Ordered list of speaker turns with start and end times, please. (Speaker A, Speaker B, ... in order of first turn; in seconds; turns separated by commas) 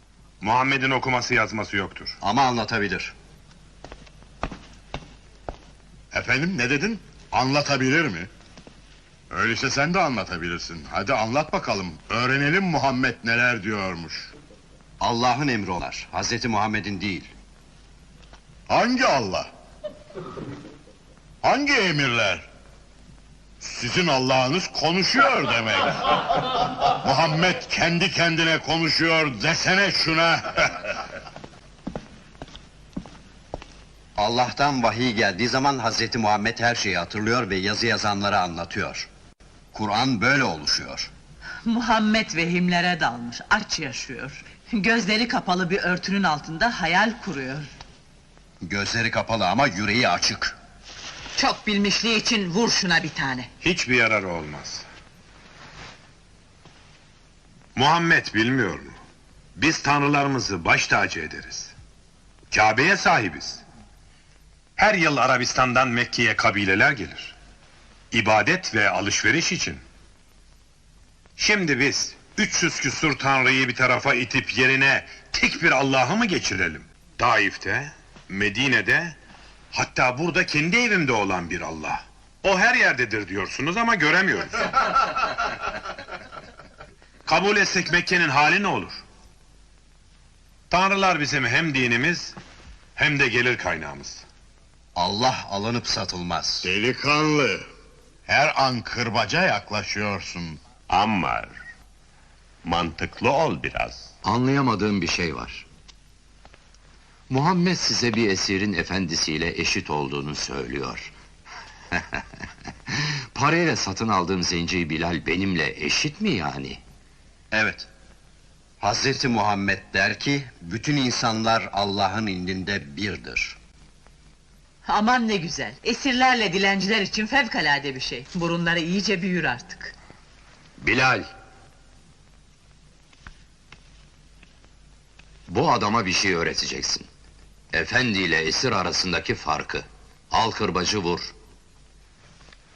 Speaker A: 0.4-2.2, Speaker B: 2.2-3.1, Speaker C: 6.1-8.3, Speaker C: 9.3-14.3, Speaker B: 15.0-17.3, Speaker C: 18.7-19.5, Speaker C: 21.4-22.5, Speaker C: 23.6-26.0, Speaker C: 27.0-30.8, Speaker B: 34.2-39.1, Speaker B: 39.7-41.1, Speaker D: 41.7-47.7, Speaker B: 48.6-50.6, Speaker D: 51.4-53.5, Speaker A: 53.6-54.9, Speaker A: 57.8-59.0, Speaker A: 59.6-61.7, Speaker A: 62.5-63.6, Speaker A: 64.8-67.3, Speaker A: 68.1-69.8, Speaker A: 71.4-79.2, Speaker A: 79.7-84.7, Speaker A: 87.3-89.0, Speaker A: 90.7-92.4, Speaker A: 93.0-94.2, Speaker B: 95.0-96.7, Speaker C: 96.6-97.7, Speaker C: 98.3-100.6, Speaker E: 100.9-101.6, Speaker E: 102.6-104.1, Speaker F: 104.2-105.7, Speaker F: 107.3-111.1, Speaker F: 111.9-112.2, Speaker F: 112.9-116.8, Speaker B: 117.5-117.9, Speaker B: 118.8-123.6, Speaker D: 124.8-129.9, Speaker F: 130.8-131.3, Speaker F: 135.5-137.1, Speaker F: 137.7-141.3